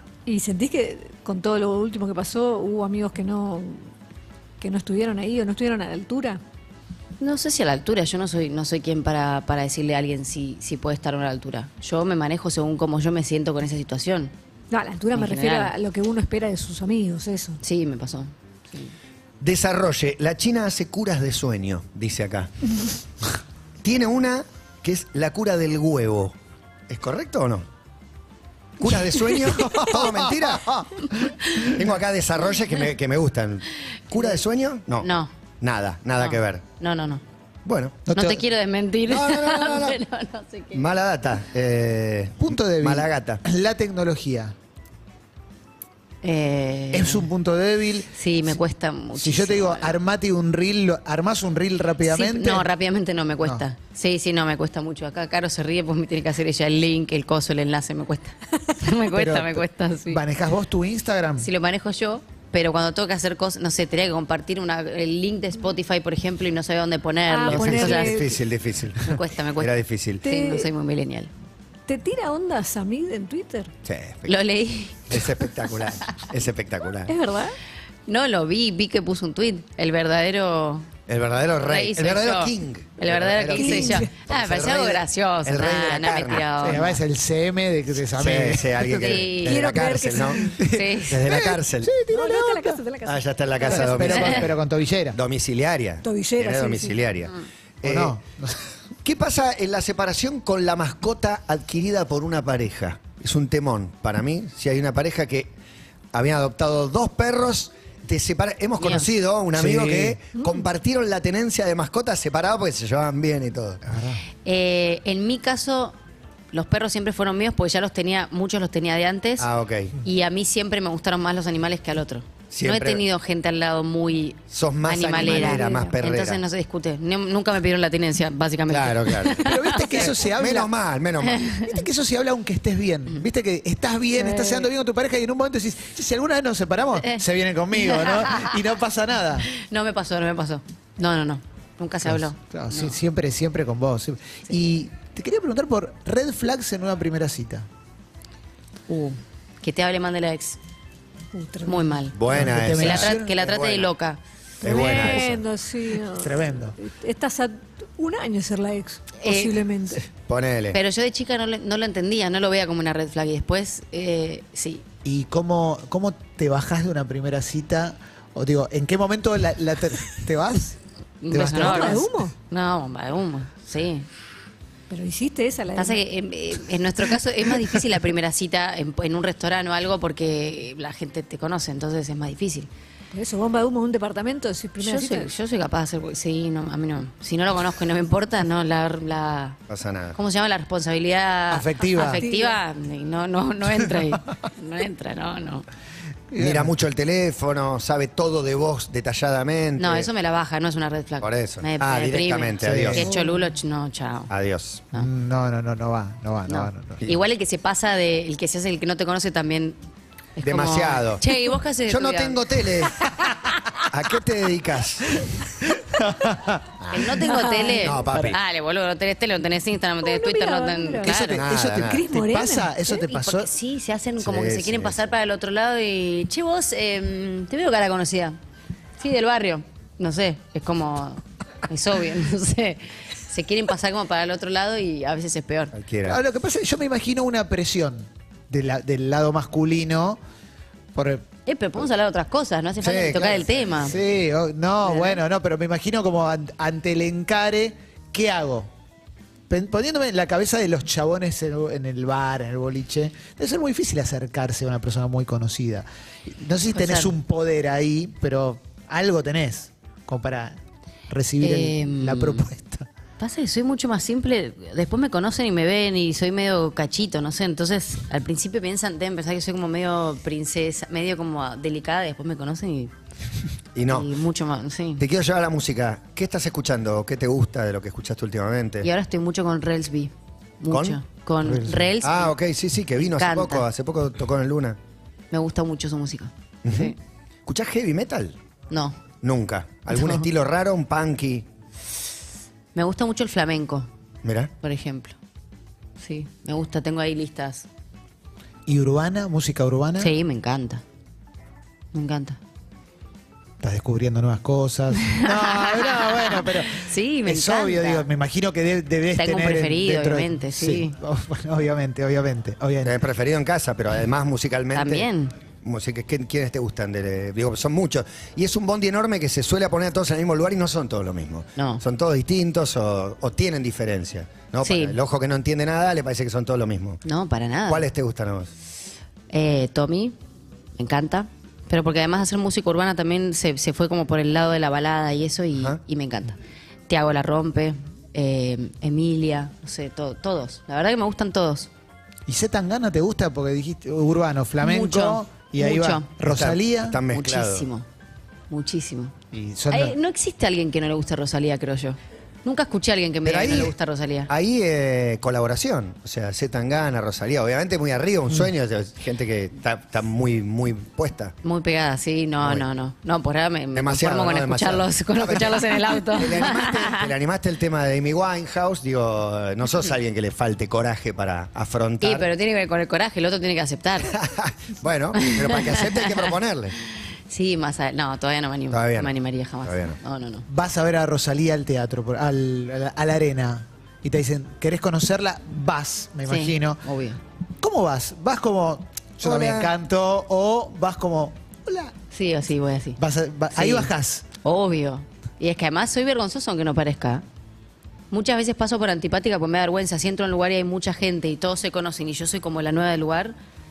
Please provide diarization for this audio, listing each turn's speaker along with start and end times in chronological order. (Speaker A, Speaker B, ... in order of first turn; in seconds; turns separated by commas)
Speaker A: 0.3-3.9, Speaker A: 4.6-6.4, Speaker B: 7.2-14.3, Speaker A: 14.7-17.6, Speaker B: 15.1-15.7, Speaker B: 17.6-18.9, Speaker C: 19.4-22.5, Speaker C: 23.8-26.4, Speaker C: 26.9-27.7, Speaker C: 28.8-36.6, Speaker D: 29.6-31.1, Speaker B: 35.0-35.3, Speaker B: 36.2-37.2, Speaker C: 37.6-38.0, Speaker D: 38.1-38.4, Speaker B: 38.1-40.9, Speaker C: 39.1-40.0, Speaker C: 40.7-43.4, Speaker D: 42.4-44.5, Speaker B: 46.2-47.3, Speaker D: 46.9-48.1, Speaker B: 48.1-50.0, Speaker D: 49.1-52.7, Speaker B: 52.0-60.2, Speaker D: 59.1-61.5, Speaker B: 61.4-68.3, Speaker A: 67.3-68.4, Speaker C: 67.5-70.2, Speaker B: 69.0-71.3, Speaker A: 70.2-70.7, Speaker A: 71.9-73.7, Speaker C: 73.8-74.3, Speaker B: 74.3-75.3, Speaker C: 75.1-77.1, Speaker A: 77.1-77.6, Speaker B: 78.1-80.9, Speaker C: 81.1-86.8, Speaker B: 81.6-87.0, Speaker A: 83.5-84.1, Speaker D: 86.6-89.2, Speaker C: 88.1-91.9, Speaker B: 88.9-89.8, Speaker A: 89.4-90.6, Speaker D: 90.4-92.8, Speaker B: 90.6-91.3, Speaker A: 92.1-94.1, Speaker C: 93.0-94.5, Speaker D: 93.6-95.2, Speaker B: 94.2-94.4, Speaker C: 95.1-98.2, Speaker A: 96.0-97.0, Speaker D: 97.8-98.6, Speaker C: 99.0-105.5, Speaker C: 106.1-113.9, Speaker B: 108.8-109.1, Speaker D: 109.5-110.2, Speaker D: 113.9-114.2, Speaker B: 114.5-116.0, Speaker B: 116.5-119.5, Speaker C: 119.4-120.0, Speaker B: 120.0-130.2, Speaker C: 122.5-123.0, Speaker C: 124.5-126.4, Speaker A: 125.2-125.9, Speaker C: 128.7-131.5, Speaker D: 129.4-130.7, Speaker B: 131.2-131.7, Speaker D: 131.6-139.5, Speaker A: 134.3-134.6, Speaker B: 137.0-137.2, Speaker B: 137.8-138.5, Speaker B: 139.5-143.0, Speaker D: 142.1-147.7, Speaker B: 148.9-150.6, Speaker A: 151.3-151.9, Speaker B: 151.7-154.2, Speaker C: 152.1-153.9, Speaker D: 152.3-153.3, Speaker A: 154.6-160.0, Speaker C: 154.6-155.4, Speaker D: 154.8-155.2, Speaker D: 156.1-156.8, Speaker B: 159.2-159.6, Speaker C: 160.2-160.8, Speaker B: 160.7-164.8, Speaker D: 165.1-170.8, Speaker B: 171.2-174.1, Speaker D: 171.3-172.1, Speaker A: 171.4-172.3, Speaker A: 174.9-176.0, Speaker B: 175.7-182.7, Speaker A: 183.1-185.3, Speaker B: 184.8-189.6, Speaker C: 189.7-190.2, Speaker B: 190.2-195.7, Speaker D: 191.5-192.2, Speaker A: 192.0-192.6, Speaker D: 196.3-196.7, Speaker C: 196.4-200.1, Speaker B: 199.8-204.3, Speaker C: 201.2-203.1, Speaker D: 202.6-203.1, Speaker C: 204.3-204.8, Speaker D: 204.9-207.1, Speaker B: 206.5-209.8, Speaker B: 210.4-212.8, Speaker C: 210.4-211.2, Speaker C: 211.9-213.1, Speaker C: 213.8-215.3, Speaker D: 216.0-216.6, Speaker C: 216.8-218.4, Speaker B: 216.9-221.4, Speaker A: 217.2-218.1, Speaker A: 220.0-221.1, Speaker D: 221.0-223.5, Speaker C: 221.3-222.0, Speaker A: 221.6-223.1, Speaker B: 223.1-228.4, Speaker C: 224.2-225.0, Speaker B: 229.0-235.8, Speaker C: 235.7-236.2, Speaker D: 236.1-240.2, Speaker D: 240.9-241.3, Speaker B: 241.5-244.0, Speaker C: 242.8-243.7, Speaker D: 243.7-248.7, Speaker B: 244.8-245.2, Speaker D: 249.5-262.9, Speaker B: 256.7-257.2, Speaker B: 261.4-262.5, Speaker B: 263.2-272.9, Speaker C: 273.8-274.1, Speaker B: 273.9-275.0, Speaker C: 275.0-278.9, Speaker B: 278.8-282.3, Speaker C: 280.7-284.8, Speaker B: 283.0-283.7, Speaker B: 285.3-287.0, Speaker C: 286.6-286.9, Speaker C: 287.5-288.4, Speaker B: 288.7-289.0, Speaker C: 289.2-291.5, Speaker B: 289.9-290.2, Speaker B: 292.8-293.9, Speaker C: 294.2-294.5, Speaker B: 294.6-295.2, Speaker B: 296.0-297.7, Speaker D: 298.7-300.1, Speaker B: 300.0-300.8, Speaker B: 301.9-302.4, Speaker D: 303.6-313.0, Speaker B: 305.0-308.1, Speaker B: 309.2-311.0, Speaker C: 312.8-315.1, Speaker B: 314.7-315.3, Speaker C: 315.6-327.0, Speaker B: 321.6-321.8, Speaker B: 324.6-325.0, Speaker B: 327.0-327.9, Speaker C: 327.7-328.5, Speaker B: 329.3-330.1, Speaker B: 330.8-336.4, Speaker B: 336.9-341.7, Speaker D: 342.3-347.0, Speaker B: 344.6-346.1, Speaker C: 346.3-347.7, Speaker B: 347.1-347.9, Speaker B: 348.5-349.1, Speaker D: 349.3-350.0, Speaker B: 349.7-354.3, Speaker C: 353.2-353.8, Speaker C: 354.3-361.4, Speaker B: 361.4-367.1, Speaker C: 363.7-372.3, Speaker B: 372.0-374.1, Speaker C: 374.1-376.8, Speaker B: 375.2-376.3, Speaker B: 376.8-380.5, Speaker C: 378.7-380.0, Speaker D: 380.5-386.8, Speaker B: 386.2-387.2, Speaker D: 387.6-391.9, Speaker C: 389.2-389.7, Speaker B: 392.1-393.0, Speaker D: 393.0-394.3, Speaker B: 393.5-393.9, Speaker B: 394.4-397.2, Speaker B: 398.1-403.4